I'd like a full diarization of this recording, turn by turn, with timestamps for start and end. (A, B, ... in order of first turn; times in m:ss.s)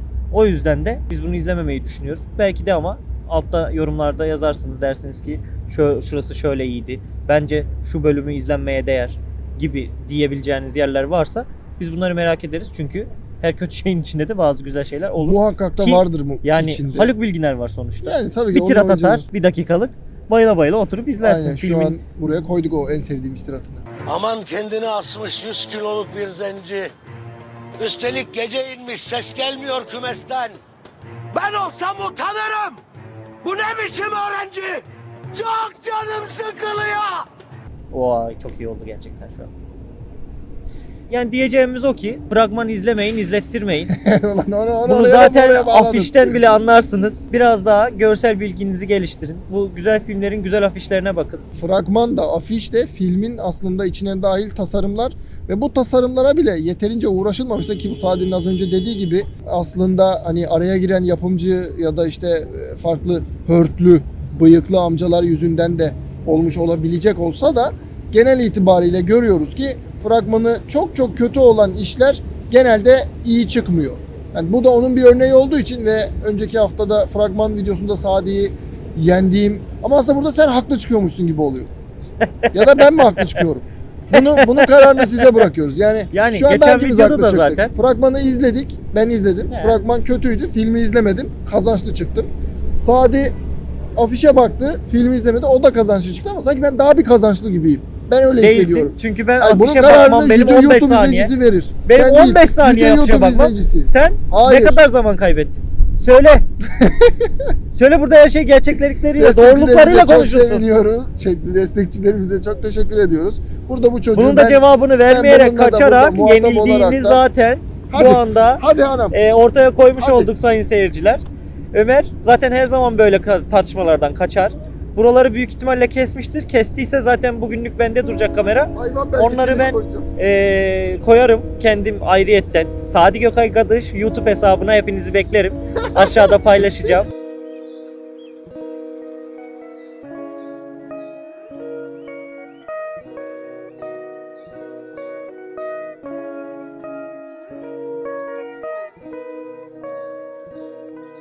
0:00.3-0:22.0 A
0:15.2-0:17.1 B
0:18.0-0:19.2 B
0:21.2-0:23.8 B
0:24.1-0:26.9 C
0:27.8-0:30.6 C
0:31.3-0:32.8 C
0:33.4-0:37.3 C
0:37.9-0:39.5 A
0:41.1-0:43.9 A
0:43.9-0:46.4 B
0:44.8-0:51.4 A
0:51.5-1:21.7 B
1:22.2-1:23.4 A
1:22.5-1:33.3 B
1:24.1-1:25.4 A
1:26.1-1:27.7 A
1:29.5-1:29.8 A
1:34.0-1:44.8 B
1:38.4-1:41.3 A
1:41.8-1:46.4 A
1:46.7-1:47.4 B
1:47.7-1:50.6 A
1:49.2-1:57.2 B
1:54.1-2:17.1 A
1:57.9-1:59.2 B
2:00.0-2:00.3 B
2:08.7-2:10.1 B
2:15.9-2:16.9 B